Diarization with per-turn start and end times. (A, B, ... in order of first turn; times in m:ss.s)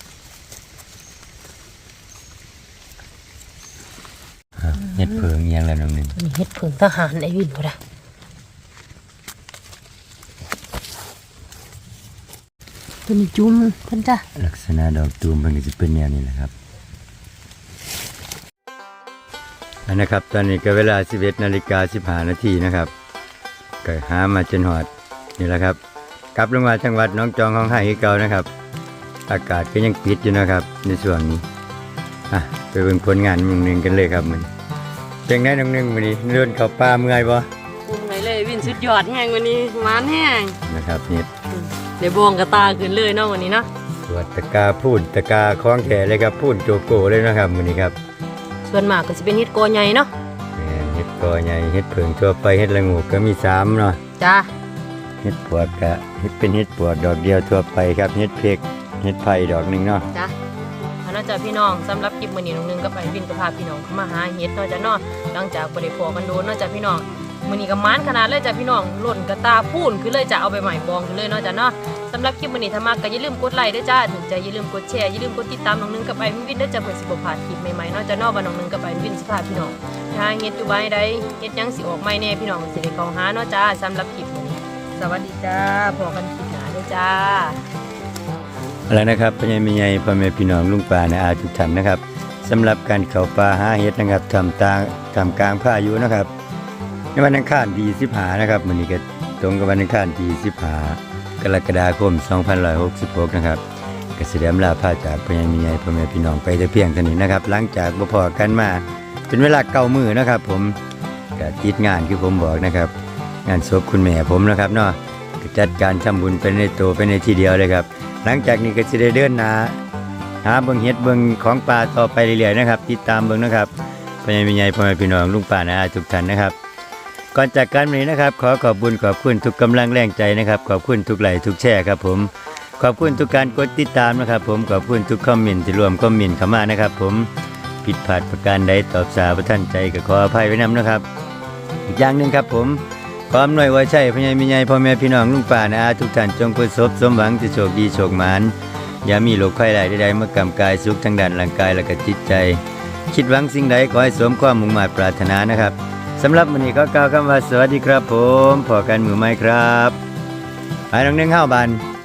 0:04.6-0:06.2 A
0:06.2-0:07.8 B
0:13.1-0:14.2 B
0:14.4-0:16.5 A
0:19.9-0:22.9 A
0:23.8-0:25.8 A
0:26.3-0:28.5 A
0:29.3-0:31.4 A
0:32.3-0:34.5 A
0:35.3-0:37.5 A
0:37.8-0:40.6 B
0:40.6-0:41.3 A
0:41.5-0:43.7 B
0:44.0-0:48.0 A
0:48.6-0:50.1 B
0:50.6-0:54.0 A
0:54.2-0:54.5 B
0:55.2-1:00.0 A
1:01.0-1:27.6 B
1:28.9-1:36.3 A
1:37.1-1:43.6 A
1:44.2-1:50.8 A
1:51.4-1:52.9 A
1:53.4-1:59.8 A
2:00.4-2:03.7 A
2:04.2-2:06.6 A
2:07.3-2:17.3 A
2:17.8-2:21.0 A
2:21.9-2:40.0 A
2:40.9-2:41.8 A